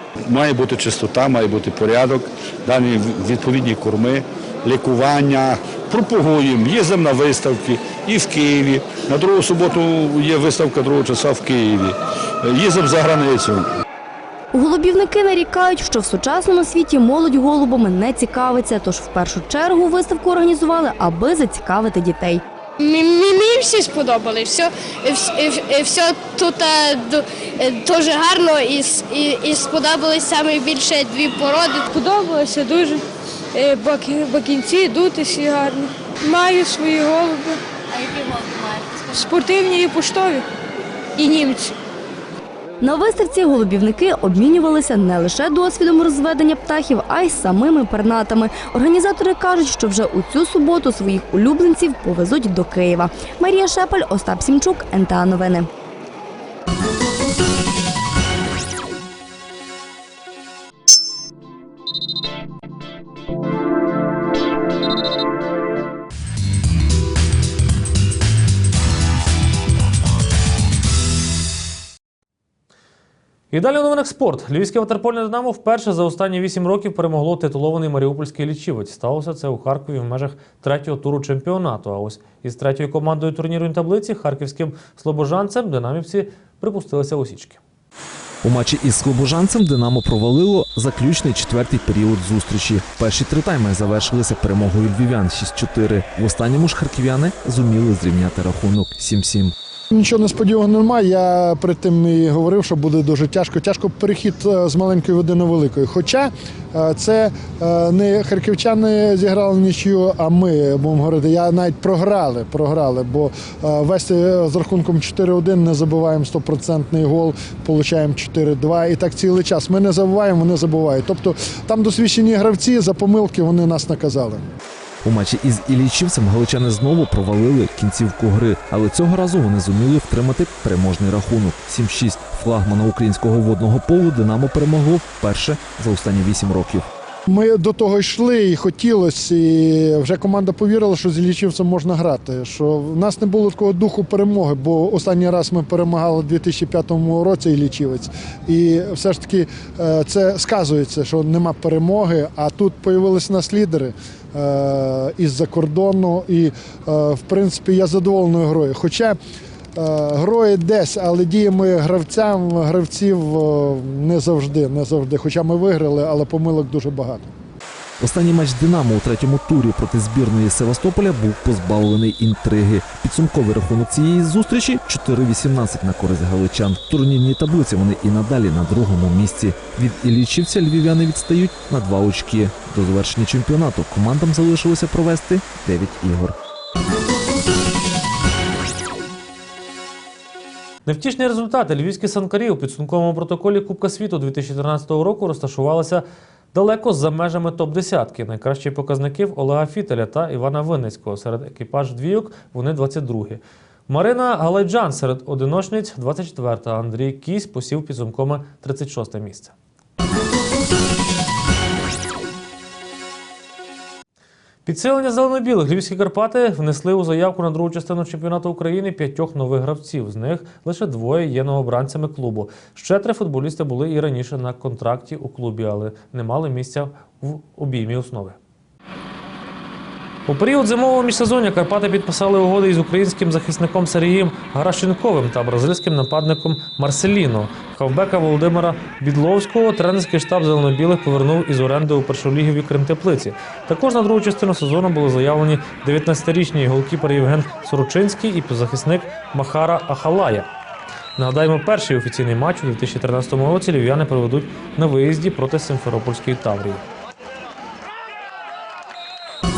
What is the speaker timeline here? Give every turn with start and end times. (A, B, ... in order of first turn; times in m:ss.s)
0:00.3-0:13.7 A
0:14.5-0:22.4 B
0:22.8-0:33.0 C
0:33.5-0:40.4 C
0:41.2-0:41.7 C
0:42.8-0:55.7 B
1:13.5-1:27.6 D
1:28.4-1:39.5 E
1:39.9-2:04.4 F
2:05.0-2:16.8 E
2:17.3-2:39.2 F
2:39.8-2:47.3 F
2:48.0-3:06.4 E
3:10.9-3:29.5 D
3:34.6-3:48.4 D
3:50.3-4:10.5 D
4:11.2-4:16.8 D